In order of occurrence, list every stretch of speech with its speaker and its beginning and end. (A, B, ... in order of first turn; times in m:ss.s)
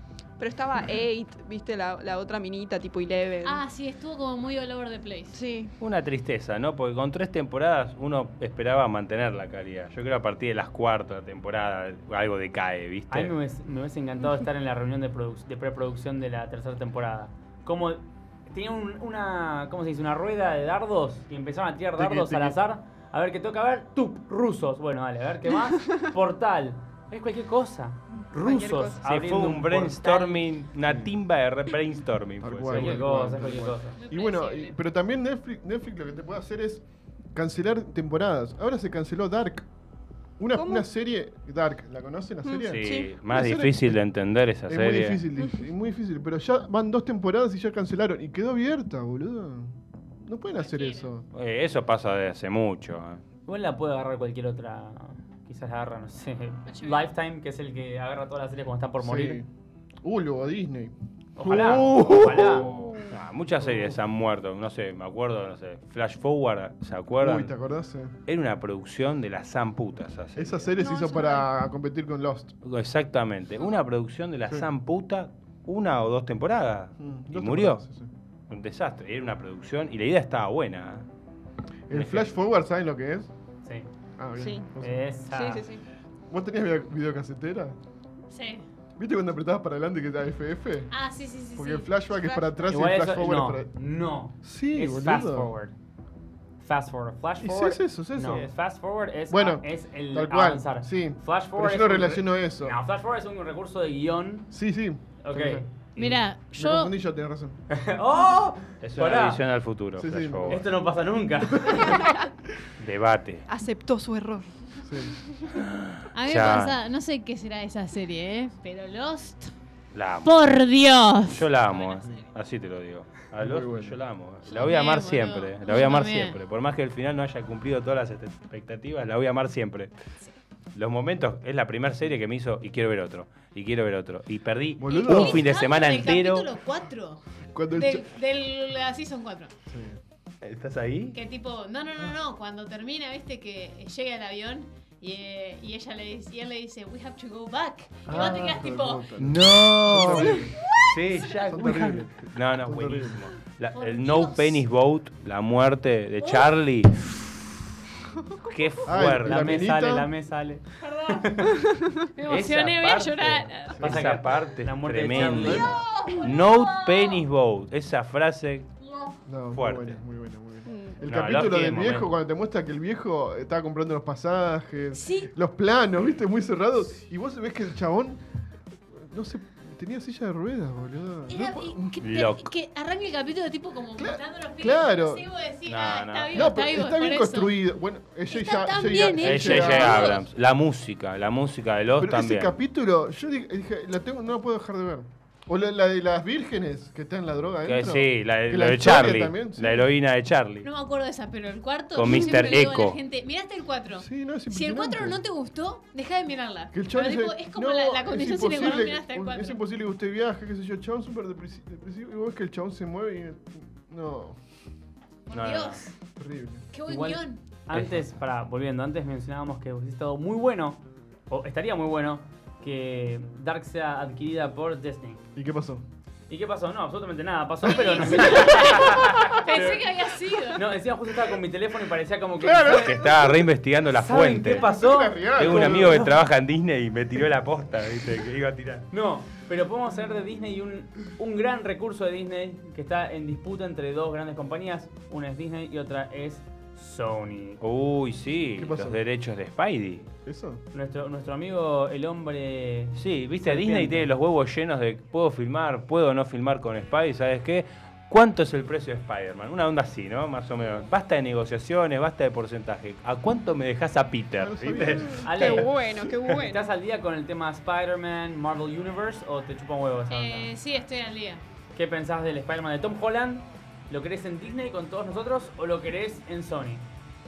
0:00.4-0:03.6 A
0:03.4-0:05.4 B
0:05.3-0:05.7 A
0:05.8-0:13.3 C
0:13.1-0:30.4 D
0:22.0-0:22.6 E
0:28.4-0:29.0 A
0:29.0-0:33.2 C
0:30.8-0:31.1 E
0:32.4-0:39.7 E
0:32.7-0:34.0 D
0:34.0-0:34.8 B
0:40.4-0:44.0 E
0:40.5-0:40.8 A
0:42.4-0:43.1 A
0:42.7-0:45.2 C
0:44.7-0:51.2 E
0:50.6-0:51.1 B
0:51.3-0:53.2 C
0:53.5-0:59.4 D
0:56.7-0:57.1 B
0:59.0-0:59.5 E
1:00.0-1:02.9 E
1:01.4-1:02.7 D
1:02.5-1:07.5 C
1:07.2-1:08.2 E
1:08.3-1:10.7 C
1:10.4-1:12.6 E
1:10.8-1:11.5 A
1:12.6-1:17.8 C
1:17.0-1:18.1 E
1:18.5-1:21.0 C
1:21.9-1:23.3 E
1:21.9-1:22.3 C
1:24.2-1:25.1 E
1:24.4-1:24.7 A
1:24.8-1:25.6 D
1:25.3-1:25.8 A
1:26.3-1:27.8 E
1:28.3-1:28.6 B
1:29.0-1:30.9 E
1:30.9-1:31.9 B
1:31.5-1:33.7 E
1:32.2-1:32.5 A
1:32.7-1:35.7 D
1:34.4-1:35.5 E
1:36.6-1:44.5 D
1:37.4-1:38.5 E
1:39.3-1:42.8 E
1:44.5-1:45.6 E
1:45.2-1:46.2 D
1:46.0-1:46.9 B
1:46.5-1:47.6 E
1:47.7-1:49.4 D
1:48.8-1:50.6 C
1:50.0-1:50.6 E
1:50.5-1:52.0 D
1:52.8-1:53.5 C
1:53.5-1:54.5 A
1:54.8-1:55.2 E
1:55.5-1:56.8 C
1:56.1-1:59.5 B
1:59.9-2:00.3 C
2:00.2-2:01.9 B
2:01.3-2:09.9 C
2:03.4-2:04.0 E
2:04.4-2:06.4 B
2:10.7-2:16.5 C
2:14.8-2:15.4 E
2:14.9-2:19.5 B
2:17.5-2:18.1 E
2:19.7-2:20.0 E
2:20.4-2:21.2 C
2:21.1-2:29.0 B
2:28.0-2:28.6 C
2:28.1-2:30.5 E
2:29.2-2:37.4 C
2:31.5-2:33.2 E
2:33.7-2:34.6 B
2:36.2-2:36.5 B
2:38.4-2:39.6 C
2:38.8-2:40.1 E
2:39.2-2:41.5 D
2:40.8-2:41.3 B
2:41.6-2:41.9 A
2:42.2-2:43.8 B
2:42.2-2:48.7 C
2:43.8-2:44.2 E
2:43.8-2:45.8 D
2:45.3-2:47.2 B
2:49.3-2:58.2 E
2:49.5-2:50.0 C
2:50.6-2:51.0 A
2:51.0-2:52.1 C
2:54.9-2:55.3 B
2:58.9-3:02.0 E
3:01.3-3:07.6 B
3:02.0-3:02.5 C
3:04.0-3:05.3 E
3:05.6-3:06.6 C
3:06.3-3:10.2 E
3:08.3-3:10.2 B
3:09.2-3:12.5 C
3:12.0-3:19.9 E
3:17.6-3:20.7 C
3:20.6-3:29.6 B
3:21.9-3:23.0 C
3:22.1-3:22.6 A
3:24.0-3:25.2 E
3:26.7-3:34.4 E
3:35.3-3:35.9 B
3:35.3-3:35.8 C
3:36.2-3:36.7 E
3:36.7-3:37.4 B
3:36.9-3:45.2 D
3:37.7-3:38.0 C
3:45.3-3:45.8 E
3:46.3-3:49.9 D
3:47.7-3:50.6 B
3:50.5-3:53.2 D
3:52.4-3:53.1 E
3:52.7-3:54.7 C
3:53.9-3:56.2 D
3:54.4-3:56.0 E
3:55.4-3:58.9 C
3:58.9-4:07.6 D
4:07.6-4:10.1 C
4:08.6-4:09.0 E
4:10.2-4:10.6 E
4:10.7-4:14.1 D
4:12.9-4:25.6 C
4:24.4-4:25.2 E
4:25.2-4:26.7 A
4:25.2-4:30.5 D
4:30.1-4:31.4 B
4:31.7-4:36.8 D